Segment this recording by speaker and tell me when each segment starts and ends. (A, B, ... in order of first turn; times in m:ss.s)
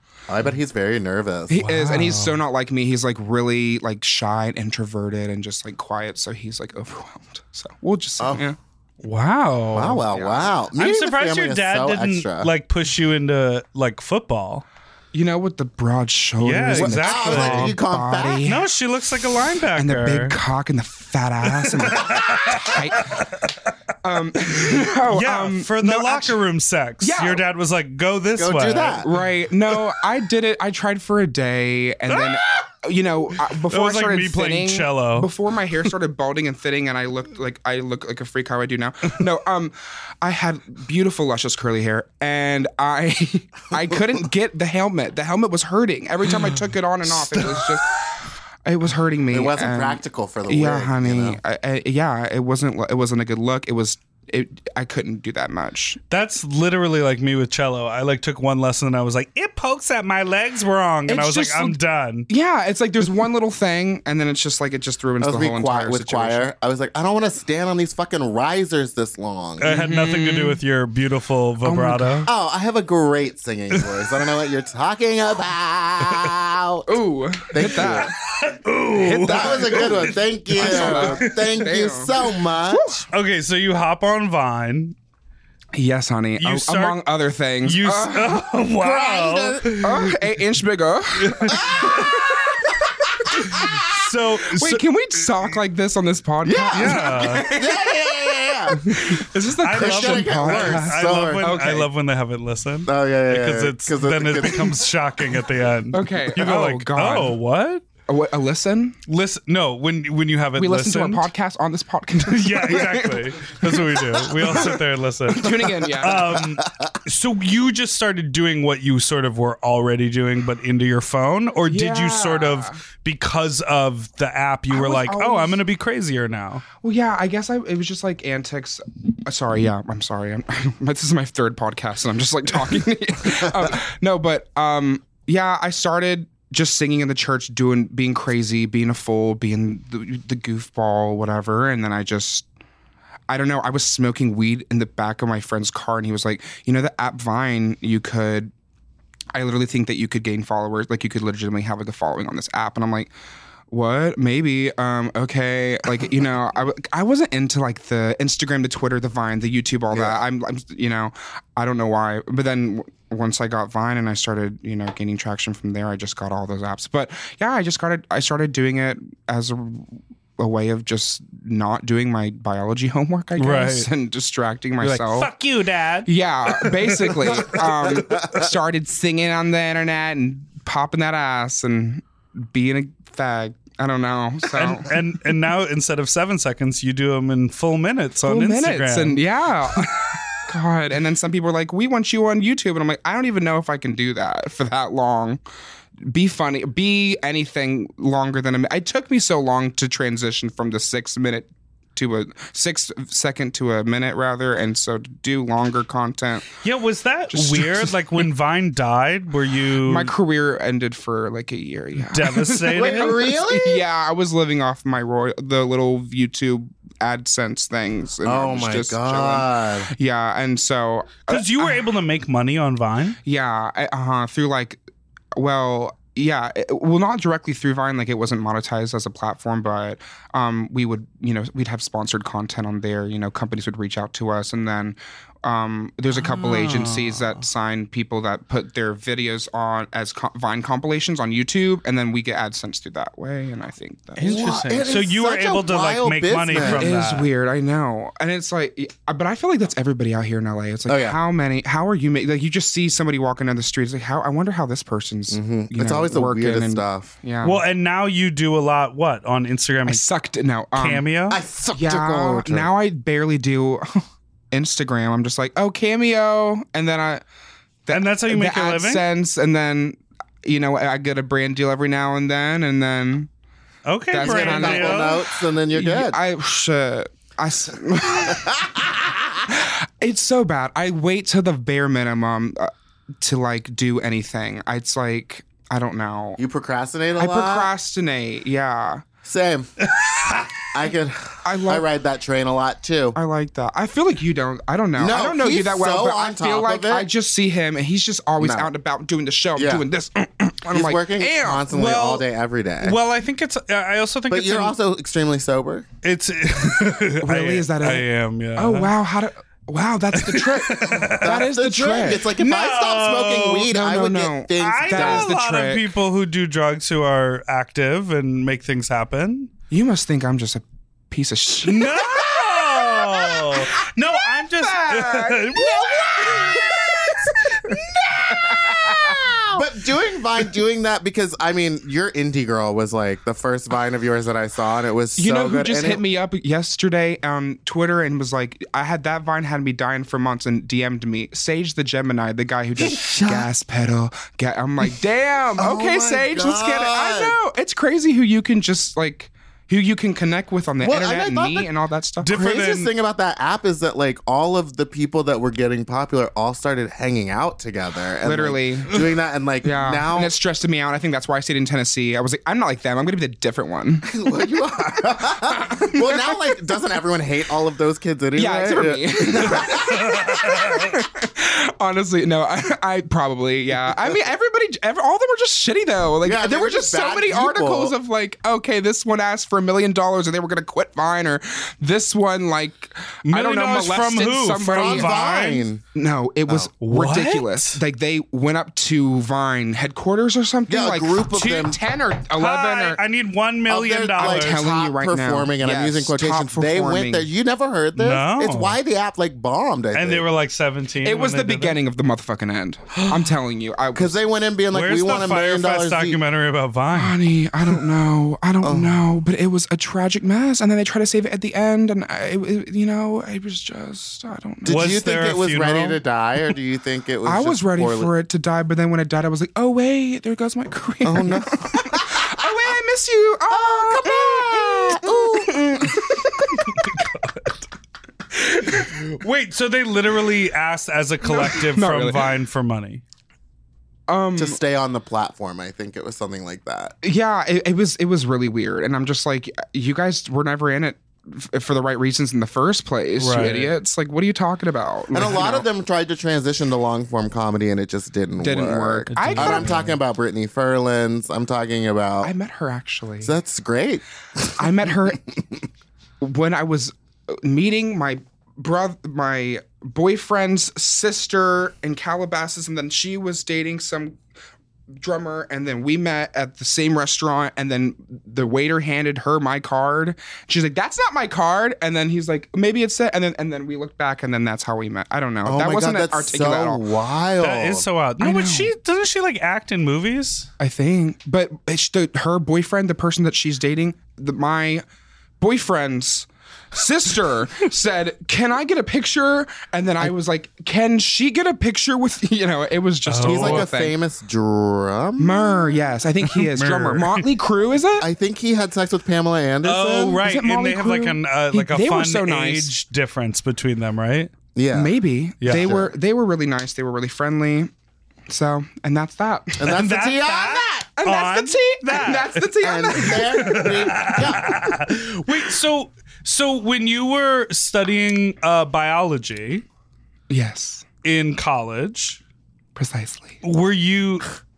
0:00.3-0:01.6 A
0:01.5-0:08.6 B
0:01.5-0:02.4 C
0:09.0-0:10.0 C
0:09.7-0:12.5 A
0:10.1-0:10.5 B
0:10.8-0:14.6 C
0:15.1-0:18.6 B
0:16.4-0:17.7 C
0:16.7-0:18.5 A
0:18.4-0:20.4 C
0:19.8-0:23.2 B
0:21.6-0:23.5 C
0:24.0-0:26.4 B
0:24.5-0:29.1 C
0:27.0-0:27.4 B
0:28.4-0:29.1 A
0:29.0-0:56.0 B
0:32.1-0:32.6 C
0:33.7-0:35.3 C
0:49.3-0:51.4 A
0:56.1-1:02.3 C
1:01.1-1:06.4 B
1:05.2-1:09.7 A
1:09.6-1:12.3 C
1:09.7-1:10.6 B
1:11.6-1:12.2 B
1:12.3-1:17.0 A
1:16.9-1:18.1 B
1:17.5-1:18.1 A
1:18.0-1:21.6 C
1:19.0-1:22.1 B
1:19.1-1:22.9 A
1:22.7-1:23.0 B
1:23.1-1:25.0 C
1:25.7-1:28.4 B
1:26.4-1:27.0 C
1:27.6-1:30.1 C
1:28.7-1:29.8 A
1:29.8-1:32.6 B
1:31.2-1:32.1 C
1:31.6-1:33.7 A
1:33.3-1:34.8 C
1:34.6-1:41.9 B
1:36.4-1:38.9 A
1:36.6-1:37.5 C
1:39.6-1:47.8 C
1:39.7-1:41.5 A
1:42.8-1:44.8 A
1:45.9-1:47.3 B
1:48.1-1:49.0 B
1:49.1-1:51.3 C
1:50.6-1:56.4 B
1:52.3-2:06.6 C
2:01.7-2:02.8 B
2:04.7-2:05.6 B
2:06.8-2:22.4 B
2:23.3-2:28.5 B
2:29.3-2:33.1 B
2:33.7-2:55.3 B
2:39.9-2:40.2 A
2:53.4-2:53.9 C
2:54.8-2:57.6 C
2:56.0-3:04.9 B
2:58.0-2:58.4 A
3:04.5-3:09.2 C
3:08.3-3:15.4 B
3:16.0-3:26.6 B
3:26.6-3:30.1 C
3:27.3-3:27.9 B
3:29.8-3:41.8 B
3:32.0-3:33.2 C
3:32.7-3:33.8 A
3:38.2-3:39.9 A
3:41.3-3:43.2 C
3:43.2-3:44.8 B
3:45.3-4:04.4 B
3:56.2-3:57.4 C
4:04.2-4:07.3 C
4:04.2-4:06.9 A
4:06.5-4:17.6 B
4:10.9-4:11.2 A
4:15.3-4:17.1 A
4:17.4-4:20.0 C
4:19.8-4:21.0 B
4:20.8-4:21.4 C
4:21.3-4:22.7 A
4:21.7-4:27.2 B
4:27.8-4:33.3 B
4:27.9-4:29.0 C
4:33.8-4:35.2 C
4:34.1-4:38.7 B
4:34.2-4:36.2 A
4:38.3-4:39.3 A
4:39.4-4:42.7 B
4:43.2-4:46.4 B
4:46.4-4:47.7 A
4:47.2-4:49.0 B
4:49.2-4:53.2 A
4:50.0-4:50.5 C
4:51.4-4:51.8 B
4:53.2-5:01.7 B
4:55.0-4:57.1 A
4:58.4-4:58.7 A
4:59.6-4:59.8 A
5:00.7-5:03.0 A
5:01.7-5:02.2 C
5:02.8-5:04.7 C
5:04.3-5:05.8 A
5:06.0-5:08.9 C
5:07.2-5:12.3 B
5:10.2-5:11.3 C
5:11.2-5:15.3 A
5:12.4-5:13.7 C
5:13.7-5:15.9 B
5:14.6-5:19.5 C
5:19.7-5:22.2 B
5:21.6-5:27.3 C
5:23.6-5:23.8 B
5:24.5-5:29.6 B
5:25.6-5:27.1 A
5:28.3-5:36.0 A
5:35.2-5:52.3 B
5:42.8-5:43.5 A
5:45.6-5:47.4 A
5:50.8-5:51.7 A
5:52.2-5:52.9 C
5:52.3-6:00.3 A
5:58.2-5:59.0 B
5:59.6-6:04.1 B
6:04.0-6:10.8 A
6:05.5-6:06.3 B
6:08.4-6:25.2 B
6:09.6-6:10.9 C
6:16.2-6:17.9 A
6:23.2-6:25.6 C
6:24.7-6:25.8 A
6:25.9-6:33.0 B
6:26.8-6:27.8 C
6:30.7-6:31.8 A
6:32.3-6:34.6 C
6:33.7-6:40.2 A
6:34.2-6:37.3 B
6:38.0-6:38.8 C
6:39.9-6:41.8 C
6:41.0-6:44.2 B
6:42.9-6:43.2 C
6:43.9-6:46.2 A
6:44.7-6:47.2 C
6:46.9-6:55.0 B
6:48.6-6:49.0 A
6:54.6-6:58.1 A
6:54.7-6:56.0 C
6:57.2-7:06.8 B
7:01.0-7:02.6 A
7:03.5-7:05.9 A
7:06.6-7:07.6 C
7:08.4-7:13.0 C
7:11.2-7:12.3 B
7:14.1-7:14.6 B
7:14.4-7:16.9 A
7:17.0-7:25.6 B
7:23.2-7:23.7 C
7:25.1-7:32.3 A
7:28.4-7:29.8 B
7:29.1-7:30.0 C
7:32.2-7:33.3 B
7:33.2-7:34.9 A
7:34.6-7:35.3 B
7:36.2-7:44.2 B
7:45.0-7:56.8 B
7:55.4-7:57.9 A
7:57.4-8:00.5 C
7:58.2-7:58.7 B
8:00.6-8:04.8 B
8:05.4-8:13.9 B
8:13.0-8:13.7 C
8:13.2-8:15.8 A
8:15.2-8:18.1 B
8:16.3-8:17.2 C
8:18.0-8:20.2 A
8:19.6-8:24.3 C
8:20.2-8:22.7 B
8:24.5-8:24.9 A
8:24.7-8:27.7 B
8:25.4-8:25.7 C
8:25.5-8:25.9 A
8:28.3-8:29.7 B
8:29.6-8:30.9 A
8:29.7-8:39.6 C
8:31.0-8:33.7 B
8:32.6-8:34.7 A
8:40.3-8:40.8 B
8:41.0-8:42.2 C
8:42.8-8:43.4 B
8:43.4-8:44.3 C